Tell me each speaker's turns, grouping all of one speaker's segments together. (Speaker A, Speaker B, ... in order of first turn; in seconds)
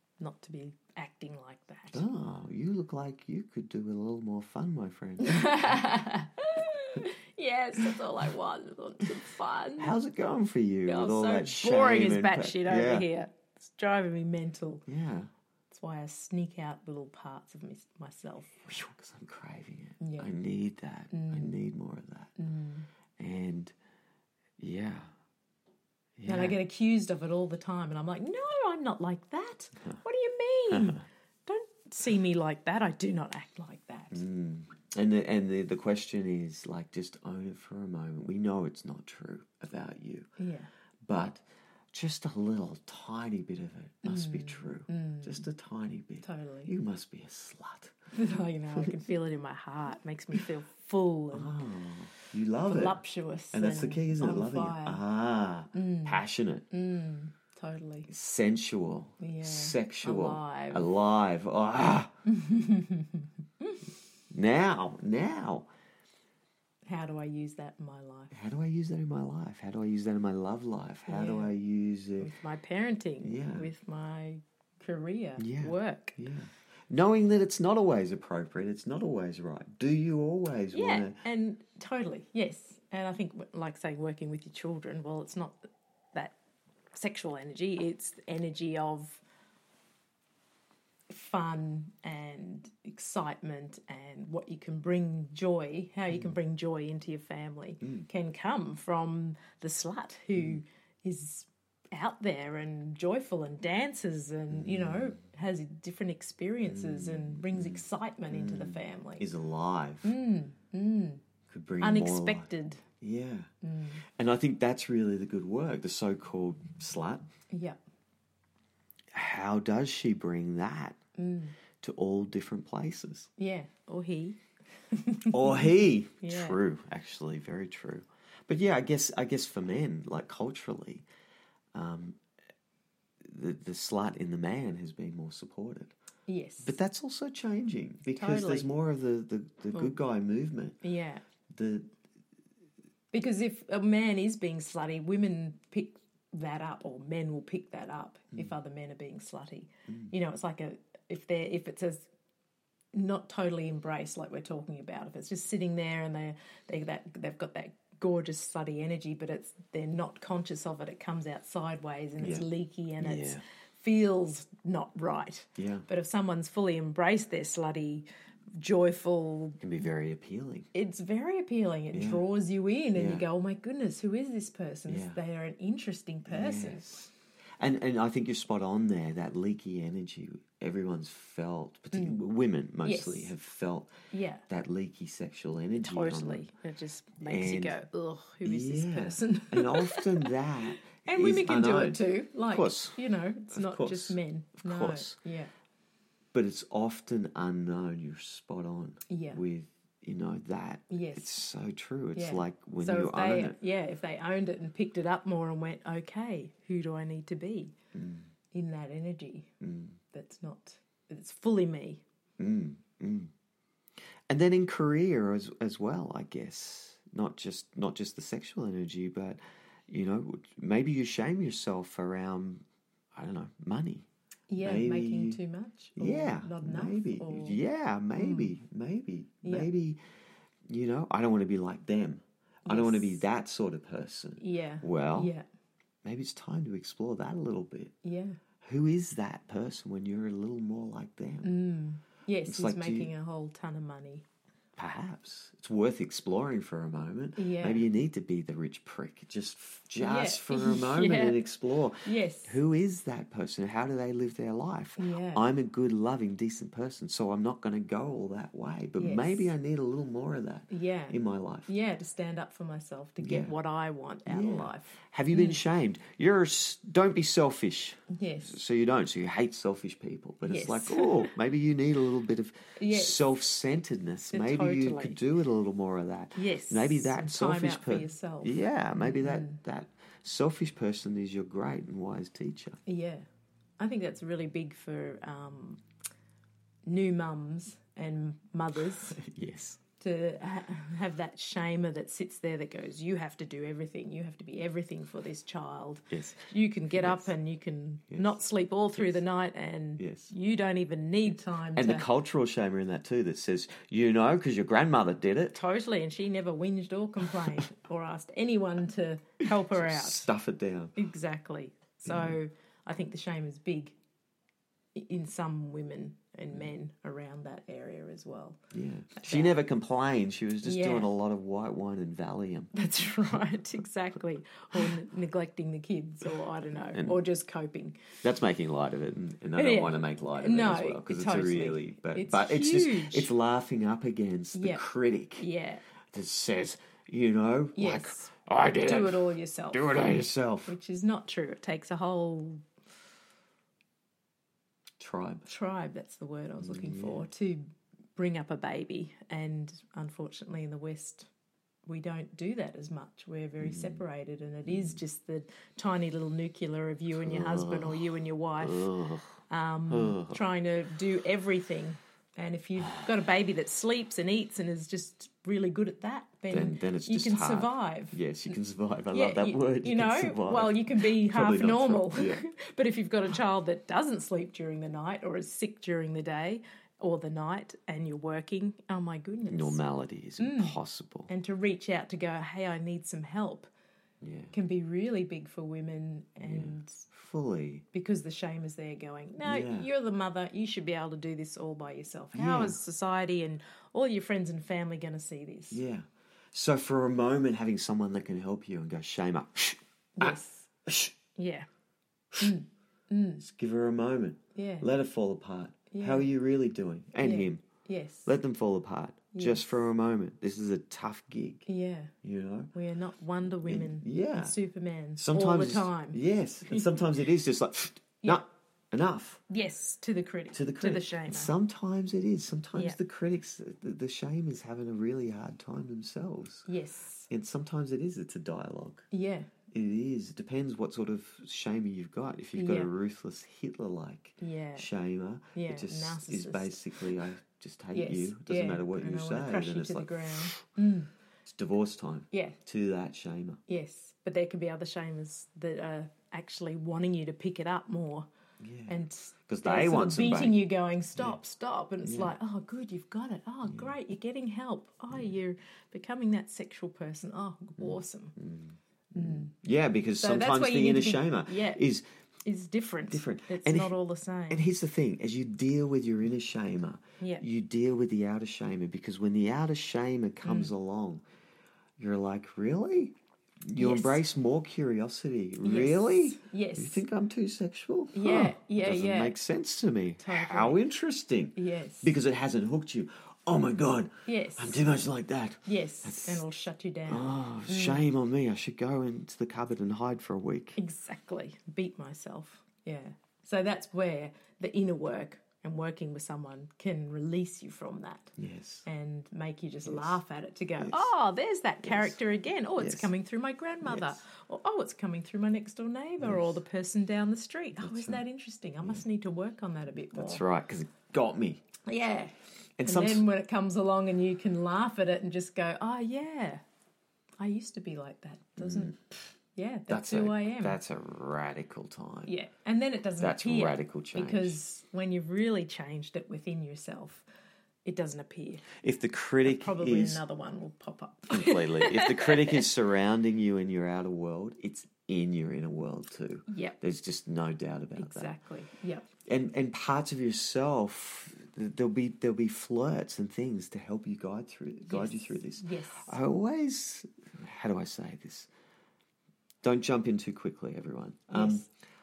Speaker A: 0.2-2.0, 5.2-9.9, 10.9-14.8, 15.7-18.6, 20.0-20.3, 21.1-21.6, 22.4-22.9, 26.3-34.2, 40.4-40.7, 44.0-45.5, 46.2-46.7, 48.1-51.6, 52.6-55.0, 55.7-58.1, 59.2-60.9, 62.3-63.9, 66.9-68.3, 71.1-71.5, 72.2-76.2, 80.7-86.3, 86.9-89.2, 91.1-109.3, 110.0-111.2, 111.8-112.8, 113.6-114.0, 117.5-117.8, 121.2-121.6, 123.4-124.4, 124.9-126.6, 136.3-136.7, 138.1-138.7, 140.8-141.2, 143.1-152.1, 152.9-169.6, 170.7-177.0, 181.9-182.2, 182.8-183.3, 184.1-184.4, 185.8-195.5, 199.1-199.4, 200.9-201.3, 202.2-207.7, 208.5-209.5, 210.1-212.0, 224.5-227.6, 228.2-228.5, 229.4-229.7, 232.7-233.2, 234.4-235.4, 238.0-238.4, 241.4-244.2, 247.4-247.9, 250.0-251.4, 252.0-252.6, 255.0-255.4, 259.0-259.5, 260.7-265.6, 268.1-268.6, 270.4-271.3, 272.8-273.2, 274.3-275.2, 276.4-279.6, 282.9-283.3, 283.8-285.8, 286.9-289.2, 290.0-302.1, 305.5-310.3, 311.0-314.0, 314.9-318.6, 319.2-319.6, 320.6-321.1, 322.7-328.1, 329.6-333.3, 334.5-334.9, 335.4-335.8, 337.8-342.7, 345.5-351.3, 351.9-358.9, 359.5-368.2, 369.1-379.8, 380.4-383.7, 384.5-387.1, 387.9-395.8, 400.2-400.7, 401.4-401.7, 402.4-403.4, 404.6-404.9, 405.9-406.3, 407.2-408.3, 409.3-409.7, 411.7-412.1, 412.7-417.0, 419.5-421.5, 426.7-427.3, 429.1-429.5, 432.6-432.9, 434.4-434.9, 435.5-437.1, 437.9-441.1, 442.3-442.6, 443.7-448.3, 448.9-458.4, 459.1-459.5, 460.2-461.8, 462.4-464.7, 470.4-470.7, 473.8-474.2, 475.6-477.1, 478.1-479.4, 480.2-480.8, 481.6-482.1, 484.3-484.9, 485.6-488.1, 490.8-498.4, 498.9-510.4, 511.9-516.6, 517.4-520.8, 522.3-527.2, 527.9-528.7, 529.5-532.6, 536.5-536.8, 538.0-539.1, 544.9-546.2, 551.3-551.7
Speaker B: 1.9-5.8, 9.8-13.1, 14.9-15.3, 18.6-22.3, 23.2-23.7, 24.6-25.1, 26.2-26.6, 30.7-31.0, 34.1-40.3, 41.0-47.9, 51.3-53.0, 53.5-56.6, 58.1-62.1, 64.3-65.7, 68.3-72.3, 73.2-73.7, 75.4-81.2, 96.1-96.4, 100.4-100.6, 104.5-105.2, 106.7-110.1, 111.5-113.5, 114.1-117.2, 119.1-121.0, 121.8-123.3, 125.3-131.1, 131.7-132.2, 133.2-135.9, 136.6-140.8, 141.5-141.9, 162.2-162.5, 163.0-163.4, 165.6-165.9, 169.6-170.7, 171.9-172.2, 172.9-173.3, 174.9-175.2, 176.3-177.1, 177.6-183.9, 184.5-186.5, 187.2-187.8, 188.4-193.0, 193.5-195.2, 196.3-203.6, 207.9-208.3, 209.6-210.0, 212.4-213.3, 214.3-224.1, 224.6-225.4, 226.0-230.0, 230.7-235.3, 236.0-237.9, 238.6-241.5, 242.5-243.1, 244.8-261.7, 263.2-263.5, 264.3-282.8, 289.1-289.8, 296.1-297.3, 300.0-300.3, 301.8-305.6, 307.3-307.7, 309.6-311.0, 312.1-312.4, 318.7-322.7, 326.9-327.2, 328.2-335.5, 336.1-340.8, 345.0-345.5, 346.6-347.3, 353.6-354.0, 354.7-355.0, 357.1-360.4, 366.5-372.4, 379.5-381.3, 384.2-384.5, 386.4-387.8, 389.4-389.9, 392.3-392.8, 395.7-401.1, 403.4-407.6, 408.2-411.6, 412.2-412.7, 413.6-414.6, 415.2-419.4, 420.5-426.7, 427.3-429.1, 429.7-440.6, 441.4-443.6, 448.6-449.0, 449.5-450.6, 452.0-452.3, 453.7-453.9, 457.8-462.0, 463.1-463.9, 464.5-471.2, 472.0-486.4, 487.1-490.8, 498.4-498.9, 499.9-500.2, 500.8-501.1, 501.8-502.2, 502.8-503.1, 503.8-504.1, 506.2-506.6, 507.8-508.2, 510.0-511.6, 512.8-513.3, 518.6-519.0, 519.9-522.3, 523.2-524.6, 528.8-530.2, 531.3-538.3, 539.3-548.5, 549.6-551.6